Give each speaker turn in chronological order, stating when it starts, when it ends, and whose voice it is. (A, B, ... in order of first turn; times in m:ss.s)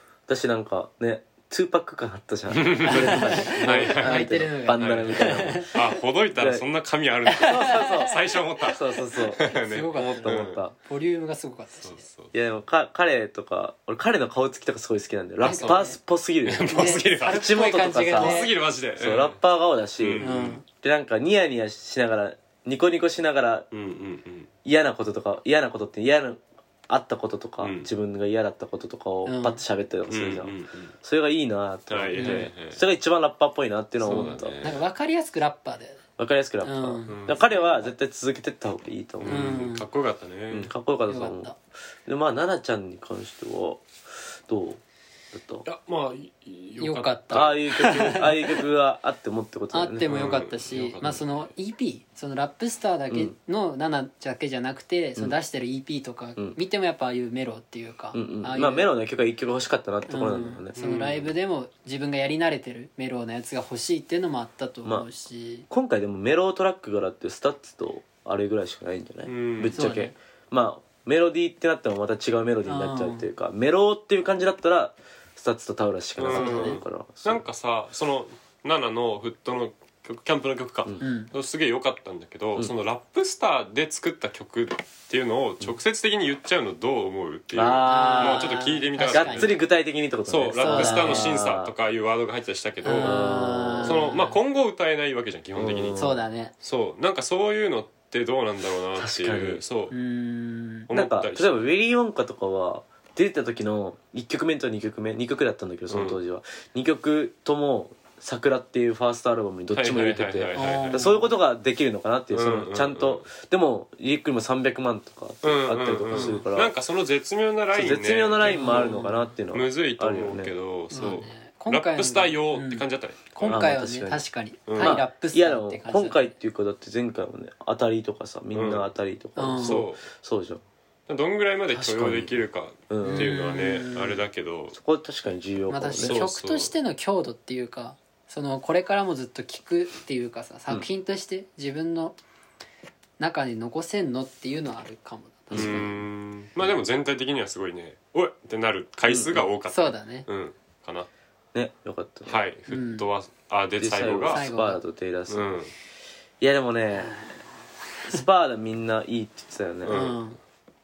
0:00.3-0:05.7 A
0:02.5-0:10.6 B
0:02.8-0:05.8 C
0:06.4-0:06.6 A
0:07.3-0:08.1 C
0:07.4-0:10.7 A
0:09.3-0:12.0 C
0:11.8-0:12.3 B
0:12.3-0:23.7 A
0:15.4-0:16.0 C
0:15.5-0:15.9 B
0:16.4-0:19.4 B
0:16.7-0:18.5 C
0:20.0-0:20.6 B
0:20.2-0:20.6 C
0:23.7-0:24.5 B
0:24.6-0:34.6 A
0:27.6-0:27.9 B
0:29.3-0:29.6 C
0:30.1-0:30.9 B
0:31.9-0:32.8 B
0:32.2-0:32.5 C
0:34.0-0:34.8 B
0:34.1-0:36.0 C
0:36.2-0:39.7 A
0:36.6-0:37.9 C
0:37.1-0:37.4 B
0:39.2-0:40.7 B
0:39.3-0:39.8 C
0:40.5-0:43.9 A
0:41.1-0:41.6 C
0:44.5-0:44.8 A
0:45.3-0:45.7 A
0:45.6-0:48.0 B
0:46.8-0:48.6 C
0:47.3-0:50.1 A
0:49.7-0:58.9 C
0:50.1-0:51.5 B
0:53.1-0:53.4 A
0:58.1-1:00.8 A
1:00.1-1:05.7 C
1:00.8-1:01.3 B
1:05.7-1:17.4 A
1:09.3-1:09.8 B
1:09.7-1:10.1 C
1:12.6-1:13.3 C
1:16.2-1:29.6 B
1:16.3-1:16.8 C
1:21.0-1:21.3 C
1:27.5-1:28.6 A
1:27.9-1:29.5 C
1:29.1-1:31.7 A
1:30.3-1:36.1 B
1:30.6-1:31.4 C
1:32.8-1:34.4 C
1:33.0-1:34.1 A
1:35.6-1:36.2 A
1:36.0-1:36.5 C
1:36.6-1:39.9 B
1:39.0-1:39.6 A
1:39.9-1:40.9 C
1:40.9-1:41.7 B
1:40.9-1:56.7 A
1:45.9-1:46.2 B
1:49.7-1:51.1 B
1:50.6-1:51.3 C
1:52.3-1:53.3 B
1:55.4-2:03.6 B
1:56.1-1:56.4 C
1:57.7-2:00.5 A
1:58.4-1:59.2 C
2:00.9-2:06.3 C
2:03.4-2:04.2 A
2:04.7-2:05.0 B
2:04.8-2:10.6 A
2:08.5-2:08.9 B
2:09.4-2:09.8 C
2:09.6-2:10.1 B
2:11.1-2:14.8 B
2:11.7-2:13.4 A
2:13.0-2:14.2 C
2:14.7-2:16.2 A
2:15.7-2:22.2 C
2:16.0-2:16.7 B
2:23.2-2:26.0 C
2:25.5-2:25.8 A
2:25.5-2:31.1 B
2:29.1-2:29.5 A
2:29.7-2:30.3 C
2:31.5-2:32.4 A
2:32.3-2:34.5 B
2:32.7-2:33.1 C
2:33.8-2:35.6 A
2:34.2-2:34.8 C
2:35.3-2:35.7 B
2:36.4-2:37.2 A
2:37.0-2:37.4 C
2:38.1-2:40.0 A
2:39.8-2:40.2 B
2:39.9-2:40.4 C